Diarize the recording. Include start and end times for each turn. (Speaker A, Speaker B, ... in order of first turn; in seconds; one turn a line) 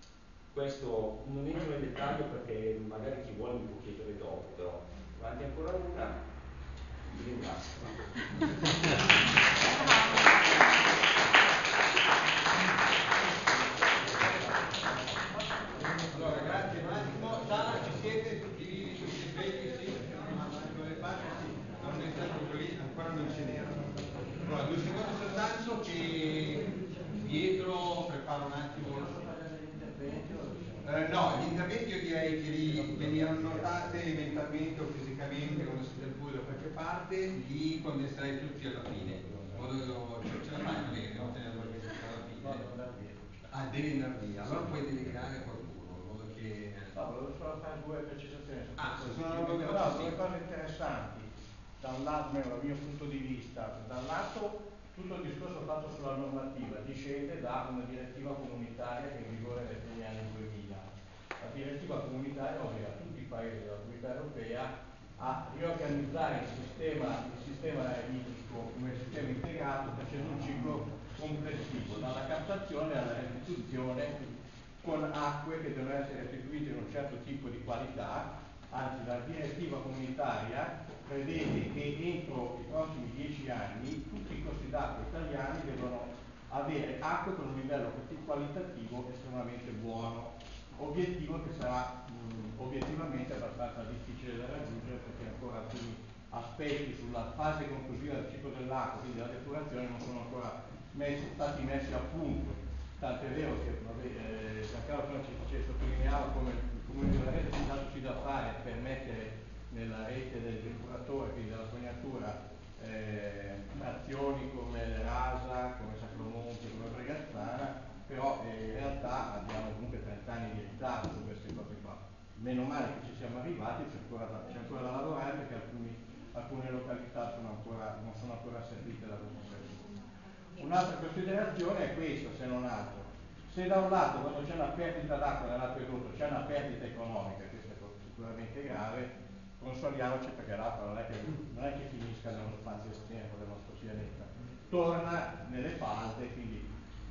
Speaker A: 0.5-6.2
Speaker A: 7.1-8.3
Speaker B: 16.1-29.3
Speaker B: 30.8-42.6
Speaker C: 42.4-43.2
Speaker B: 43.5-47.0
Speaker C: 46.9-60.9
Speaker B: 48.8-50.2
Speaker C: 61.4-129.9
Speaker C: 130.6-146.7